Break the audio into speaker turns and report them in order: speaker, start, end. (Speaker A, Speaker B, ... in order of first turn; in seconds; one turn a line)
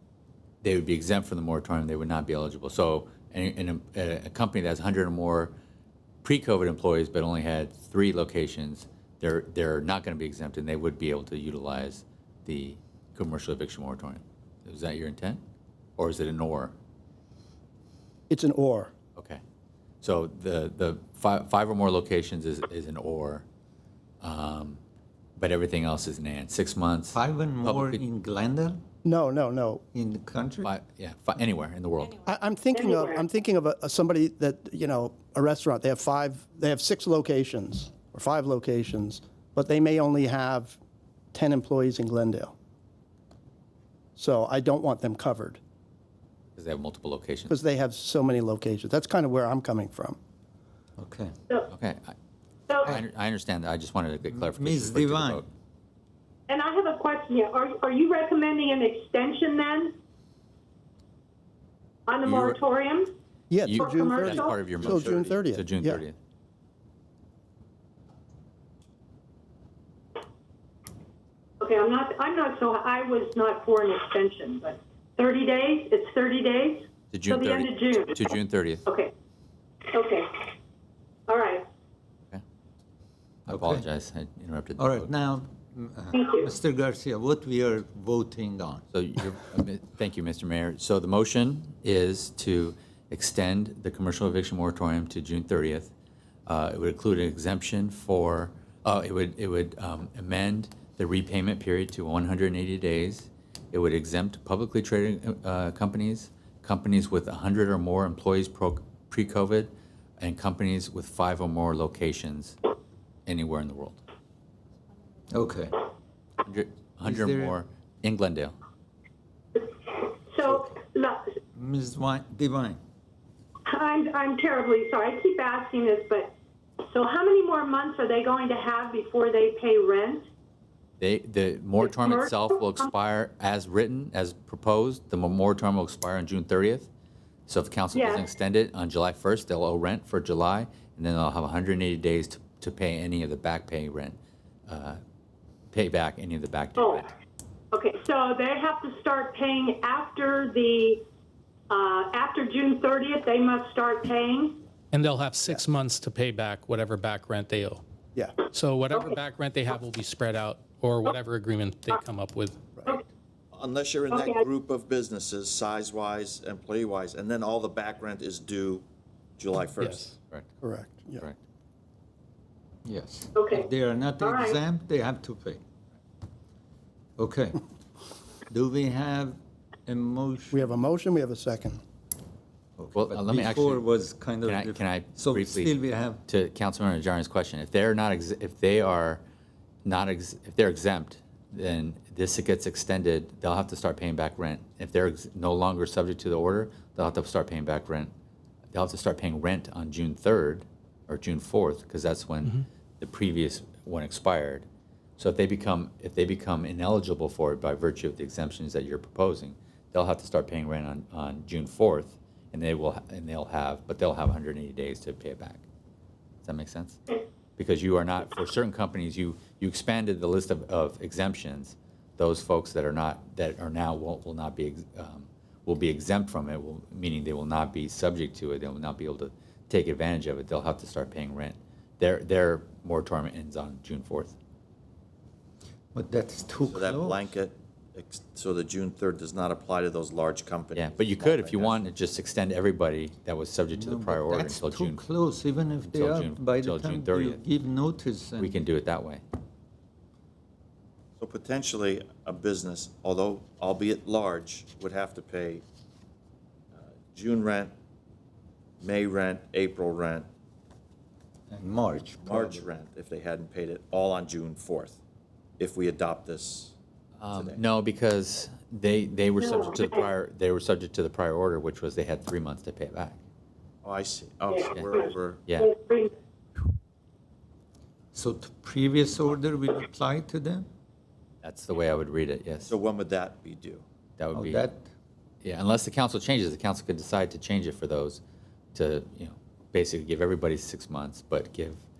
Speaker A: 0.6-5.5
Speaker A: 6.2-15.4
Speaker A: 16.0-16.7
Speaker B: 18.3-18.9
Speaker A: 19.1-19.4
Speaker A: 20.0-23.4
Speaker A: 24.2-24.8
Speaker A: 25.4-28.0
Speaker C: 27.1-28.8
Speaker B: 29.0-29.8
Speaker C: 29.9-30.7
Speaker A: 30.6-32.2
Speaker B: 32.2-40.8
Speaker D: 32.7-33.2
Speaker B: 41.3-42.5
Speaker B: 44.1-45.6
Speaker A: 46.5-47.6
Speaker B: 47.5-50.2
Speaker C: 51.0-51.4
Speaker A: 51.7-52.1
Speaker D: 52.7-52.9
Speaker A: 52.8-55.5
Speaker C: 54.3-55.4
Speaker D: 56.5-59.9
Speaker D: 62.1-63.1
Speaker B: 63.5-66.0
Speaker A: 63.6-66.2
Speaker D: 63.7-64.6
Speaker D: 71.6-78.2
Speaker A: 77.1-78.8
Speaker D: 78.8-79.1
Speaker D: 79.9-80.5
Speaker D: 81.3-81.7
Speaker C: 83.5-83.8
Speaker A: 83.5-85.1
Speaker C: 84.8-88.8
Speaker D: 86.1-86.5
Speaker A: 88.9-95.9
Speaker A: 96.5-112.6
Speaker A: 113.2-114.0
Speaker C: 115.3-115.9
Speaker A: 116.4-118.5
Speaker C: 117.0-117.5
Speaker D: 119.5-121.3
Speaker C: 120.4-120.7
Speaker C: 121.5-122.8
Speaker D: 123.7-130.3
Speaker A: 131.0-136.9
Speaker D: 131.8-132.9
Speaker A: 137.5-145.0
Speaker D: 137.9-138.2
Speaker A: 145.7-147.1
Speaker D: 146.8-147.0
Speaker D: 147.7-151.0
Speaker D: 151.7-154.6
Speaker E: 154.9-157.8
Speaker E: 158.5-162.6
Speaker D: 158.9-159.2
Speaker F: 163.5-168.8
Speaker D: 164.1-164.4
Speaker F: 169.4-170.1
Speaker E: 169.8-170.1
Speaker B: 170.6-171.2
Speaker C: 172.8-175.6
Speaker D: 173.3-174.6
Speaker C: 177.2-177.6
Speaker C: 178.5-180.7
Speaker B: 180.5-181.8
Speaker C: 182.8-186.2
Speaker A: 182.9-183.8
Speaker A: 184.4-185.8
Speaker A: 186.3-189.2
Speaker A: 189.8-198.1
Speaker A: 198.7-204.7
Speaker A: 205.2-215.6
Speaker A: 216.4-217.0
Speaker A: 217.6-234.3
Speaker C: 235.9-237.3
Speaker F: 236.6-241.8
Speaker A: 240.8-245.0
Speaker C: 243.7-248.6
Speaker A: 245.9-247.4
Speaker A: 248.4-249.2
Speaker F: 251.2-255.6
Speaker F: 256.7-257.7
Speaker F: 258.8-260.3
Speaker C: 261.5-262.6
Speaker F: 262.2-265.0
Speaker F: 265.6-266.7
Speaker A: 267.2-273.2
Speaker F: 267.3-267.6
Speaker F: 273.8-275.4
Speaker A: 275.5-275.7
Speaker D: 275.6-276.1
Speaker C: 278.1-280.7
Speaker A: 281.4-282.7
Speaker F: 282.7-283.8
Speaker A: 284.2-284.7
Speaker C: 284.3-284.9
Speaker A: 285.4-288.2
Speaker A: 288.7-291.8